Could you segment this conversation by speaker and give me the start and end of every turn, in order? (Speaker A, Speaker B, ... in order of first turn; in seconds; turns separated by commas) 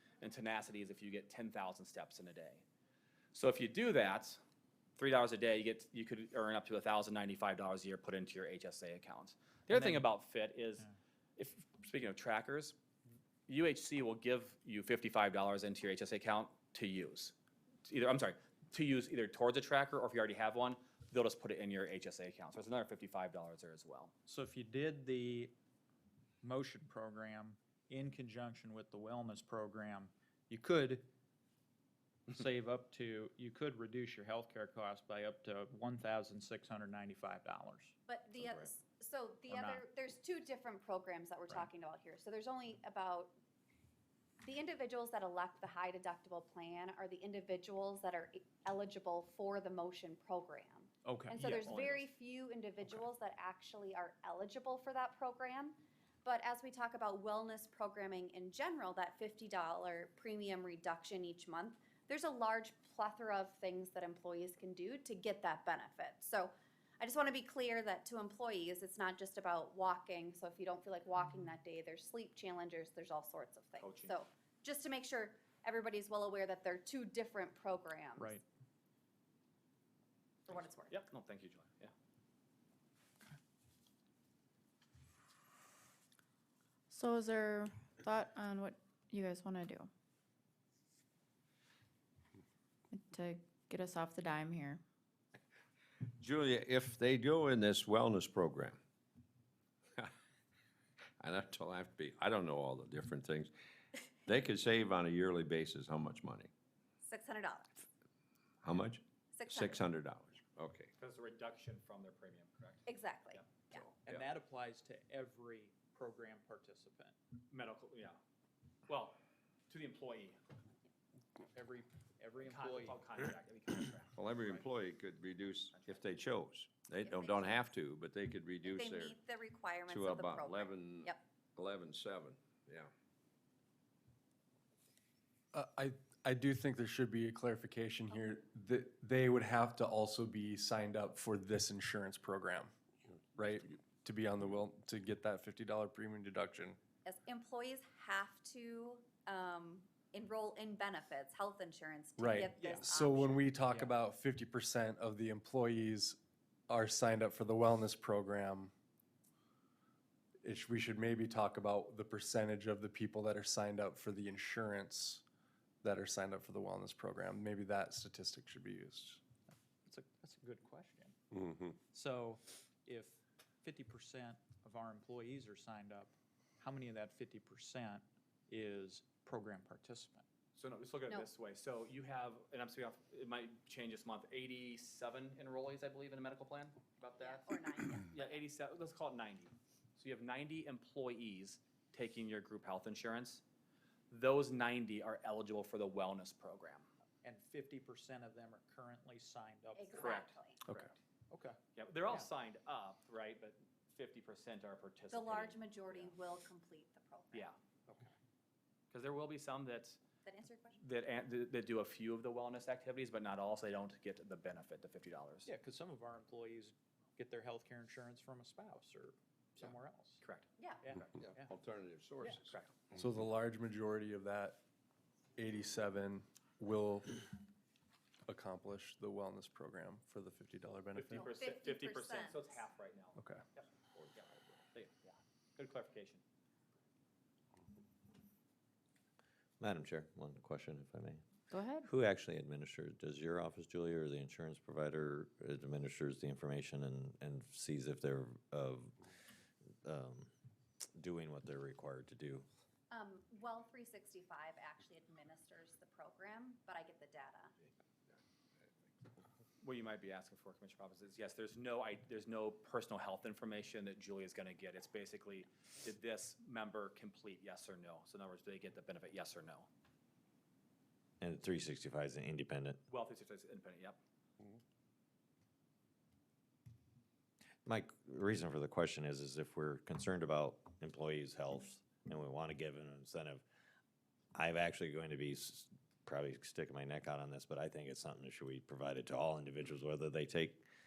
Speaker A: 0.2-2.6, Speaker A: 3.3-4.4, Speaker A: 5.0-12.7, Speaker B: 9.7-10.1, Speaker A: 13.5-17.3, Speaker A: 17.9-24.1, Speaker B: 24.2-25.5, Speaker B: 26.4-31.1, Speaker B: 32.3-37.9, Speaker C: 38.1-43.3, Speaker B: 39.5-39.8, Speaker C: 44.4-78.3, Speaker B: 51.0-51.4, Speaker A: 51.3-52.1, Speaker A: 73.8-74.2, Speaker B: 78.2-78.4, Speaker C: 80.5-80.9, Speaker A: 80.9-81.9, Speaker D: 86.9-89.9, Speaker D: 92.9-94.8, Speaker E: 96.2-98.8, Speaker E: 101.2-103.5, Speaker E: 104.2-106.5, Speaker C: 107.0-107.8, Speaker E: 108.6-110.9, Speaker C: 109.3-109.9, Speaker A: 111.0-113.4, Speaker C: 112.9-113.8, Speaker E: 113.7-114.3, Speaker B: 114.0-117.1, Speaker A: 117.5-118.2, Speaker A: 118.9-120.4, Speaker B: 121.4-123.0, Speaker A: 122.4-124.2, Speaker E: 124.2-129.2, Speaker A: 125.7-126.0, Speaker C: 127.0-127.6, Speaker C: 128.6-131.2, Speaker E: 129.9-132.9, Speaker F: 135.5-142.7, Speaker F: 143.3-146.8, Speaker C: 147.0-153.6, Speaker F: 152.2-156.2, Speaker B: 152.6-152.9, Speaker B: 153.7-153.9, Speaker F: 156.7-158.7, Speaker F: 160.4-165.2, Speaker F: 165.8-169.2, Speaker B: 169.5-171.2, Speaker B: 171.9-180.2, Speaker A: 180.5-193.4, Speaker C: 187.2-188.4, Speaker A: 194.1-196.9, Speaker B: 197.2-200.3, Speaker C: 199.7-200.6, Speaker A: 199.9-200.9, Speaker B: 201.3-202.3, Speaker A: 201.7-206.1, Speaker C: 205.1-207.5, Speaker A: 207.3-207.6, Speaker A: 208.9-210.0, Speaker C: 210.2-210.8, Speaker A: 210.8-215.5, Speaker B: 215.4-220.2, Speaker A: 220.2-220.5, Speaker C: 220.6-220.8, Speaker B: 220.8-221.5, Speaker E: 221.2-222.6, Speaker F: 222.9-224.6, Speaker F: 225.4-227.3, Speaker F: 228.3-231.3, Speaker A: 230.9-236.2, Speaker C: 231.1-232.6, Speaker G: 239.6-241.2, Speaker D: 241.5-241.9, Speaker G: 241.8-248.9, Speaker G: 249.8-250.3, Speaker G: 250.9-252.4, Speaker C: 252.9-257.5, Speaker A: 259.6-269.7, Speaker G: 271.2-272.8, Speaker A: 272.9-274.0, Speaker G: 277.6-283.4, Speaker G: 284.3-290.6